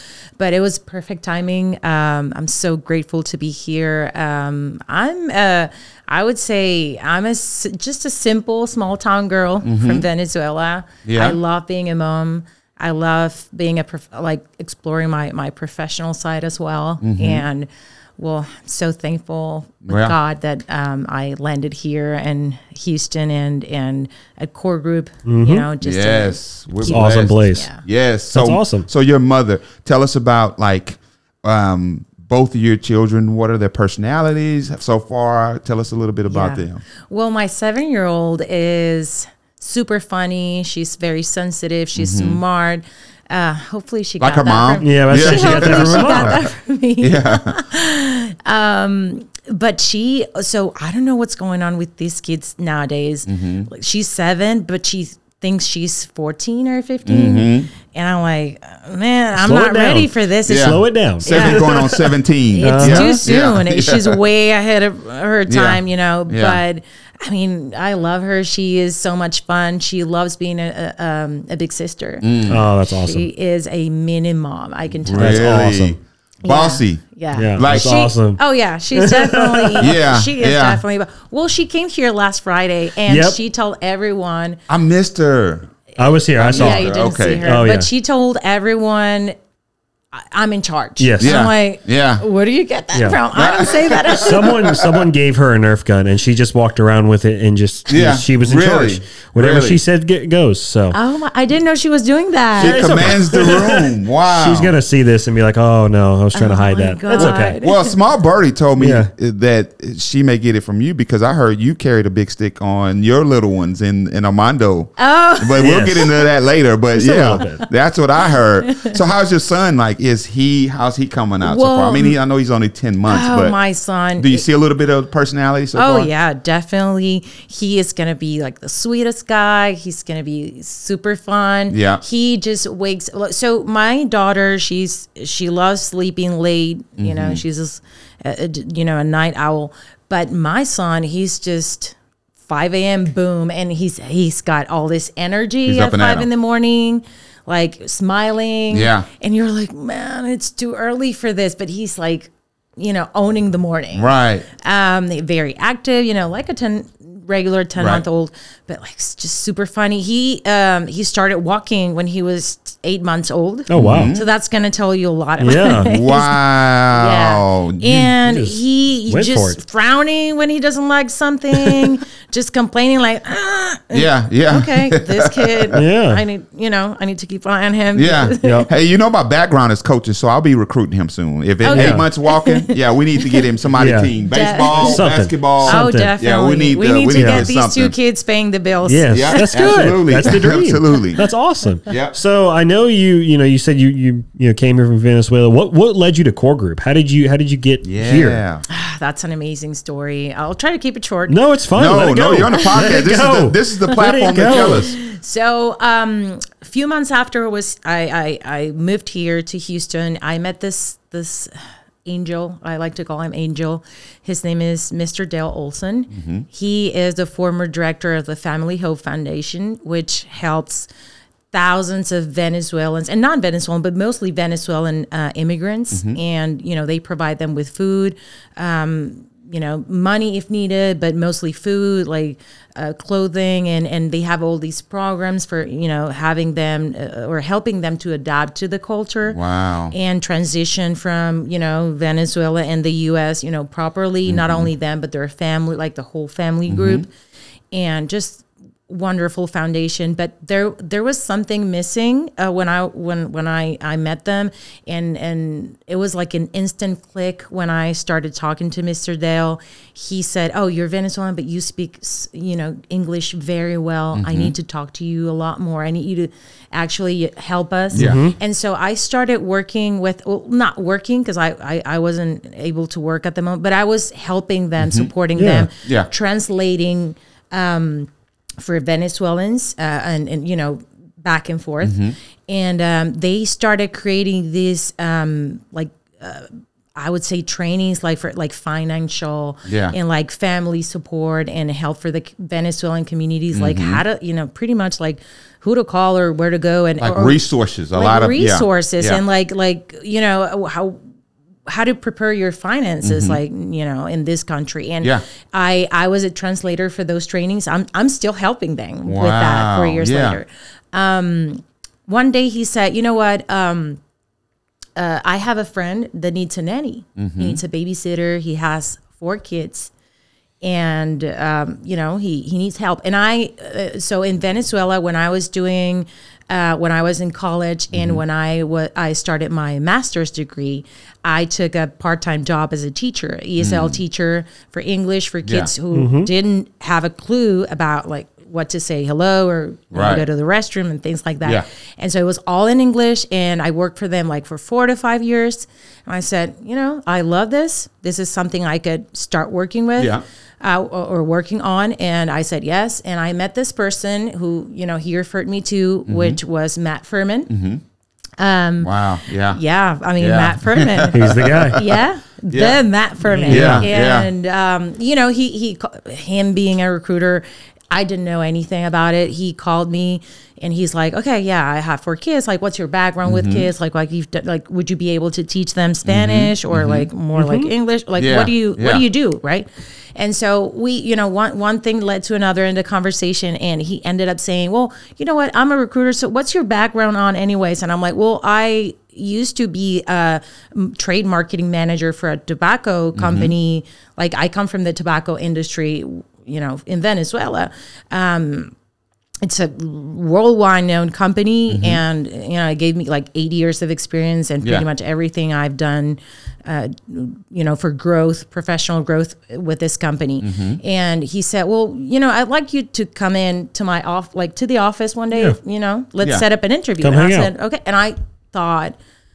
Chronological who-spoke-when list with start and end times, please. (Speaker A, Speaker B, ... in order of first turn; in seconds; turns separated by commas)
Speaker A: 0.4-27.8, Speaker B: 9.6-10.1, Speaker B: 11.1-11.4, Speaker B: 17.0-17.4, Speaker B: 19.9-20.2, Speaker C: 25.3-25.7, Speaker B: 25.8-36.8, Speaker C: 26.9-27.7, Speaker C: 28.3-28.9, Speaker A: 36.3-61.7, Speaker B: 42.0-42.4, Speaker B: 44.2-47.6, Speaker C: 44.8-46.4, Speaker B: 53.3-53.7, Speaker B: 57.1-57.7, Speaker C: 59.4-63.2, Speaker B: 60.5-64.2, Speaker A: 62.5-75.5, Speaker B: 65.5-66.6, Speaker B: 72.2-72.7, Speaker C: 72.5-73.3, Speaker B: 75.0-77.0, Speaker C: 75.1-76.0, Speaker A: 76.4-84.6, Speaker C: 77.3-78.4, Speaker B: 77.6-78.0, Speaker C: 78.9-79.9, Speaker B: 79.8-80.8, Speaker C: 83.1-83.4, Speaker B: 84.7-85.7, Speaker C: 86.0-87.9, Speaker B: 86.4-87.5, Speaker A: 86.5-89.3, Speaker A: 90.1-94.7, Speaker C: 91.0-91.4, Speaker B: 91.2-92.2, Speaker C: 92.9-93.2, Speaker B: 93.3-95.1, Speaker C: 94.2-101.0, Speaker B: 97.9-99.8, Speaker A: 100.9-103.1, Speaker B: 102.6-104.8, Speaker C: 102.6-107.6, Speaker A: 106.3-108.0, Speaker B: 107.2-123.6, Speaker C: 108.8-109.1, Speaker A: 115.0-116.2, Speaker C: 115.6-116.1, Speaker C: 116.9-117.7, Speaker A: 118.7-119.0, Speaker A: 121.4-122.2, Speaker A: 123.1-124.5, Speaker B: 124.2-126.1, Speaker A: 125.7-141.9, Speaker B: 131.7-132.0, Speaker B: 137.0-137.4, Speaker A: 142.5-178.7, Speaker B: 145.7-146.3, Speaker B: 148.7-149.1, Speaker B: 153.9-154.4, Speaker B: 157.8-158.0, Speaker C: 163.7-164.1, Speaker B: 163.7-164.3, Speaker C: 165.4-165.9, Speaker B: 165.8-168.1, Speaker C: 168.2-169.6, Speaker B: 173.9-175.8, Speaker C: 175.7-176.2, Speaker B: 177.9-187.9, Speaker C: 178.4-178.7, Speaker A: 181.6-183.4, Speaker C: 181.7-182.1, Speaker C: 183.8-184.1, Speaker A: 184.3-185.1, Speaker C: 184.7-186.1, Speaker A: 185.6-189.6, Speaker C: 187.2-187.5, Speaker C: 188.9-198.4, Speaker B: 189.1-191.2, Speaker B: 191.9-192.2, Speaker B: 197.8-198.6, Speaker A: 198.7-201.4, Speaker C: 201.3-204.9, Speaker B: 201.7-204.9, Speaker A: 202.5-202.9, Speaker A: 203.9-211.5, Speaker A: 212.1-220.9, Speaker B: 216.1-216.5, Speaker A: 221.5-239.4, Speaker B: 225.9-226.2, Speaker B: 239.3-239.9, Speaker A: 239.9-247.1, Speaker B: 244.3-244.7, Speaker B: 246.7-247.1, Speaker A: 247.7-301.0, Speaker B: 264.1-264.5, Speaker B: 267.9-268.2, Speaker C: 267.9-268.3, Speaker B: 274.8-275.1, Speaker C: 275.4-275.7, Speaker B: 275.8-276.1, Speaker B: 281.8-282.1, Speaker B: 289.7-289.9, Speaker B: 293.5-294.0, Speaker B: 297.0-299.2, Speaker A: 301.7-314.0, Speaker B: 303.0-303.4, Speaker B: 309.1-310.4, Speaker A: 315.0-319.9, Speaker B: 317.2-317.6, Speaker A: 320.6-357.5, Speaker B: 327.9-328.2, Speaker B: 333.6-334.0, Speaker B: 335.4-335.7, Speaker C: 335.9-336.3, Speaker B: 339.9-340.2, Speaker B: 350.0-350.2, Speaker B: 356.1-356.4, Speaker B: 357.5-357.8, Speaker A: 358.4-358.9, Speaker B: 358.8-359.6, Speaker A: 359.5-398.7, Speaker B: 360.2-362.0, Speaker C: 361.1-361.8, Speaker B: 362.5-362.8, Speaker C: 363.2-363.9, Speaker B: 363.5-364.3, Speaker B: 373.2-373.7, Speaker B: 376.1-377.1, Speaker C: 377.4-377.7, Speaker B: 378.2-379.1, Speaker B: 393.1-393.5, Speaker A: 399.4-419.0, Speaker B: 401.7-402.0, Speaker B: 410.4-410.8, Speaker C: 417.0-417.5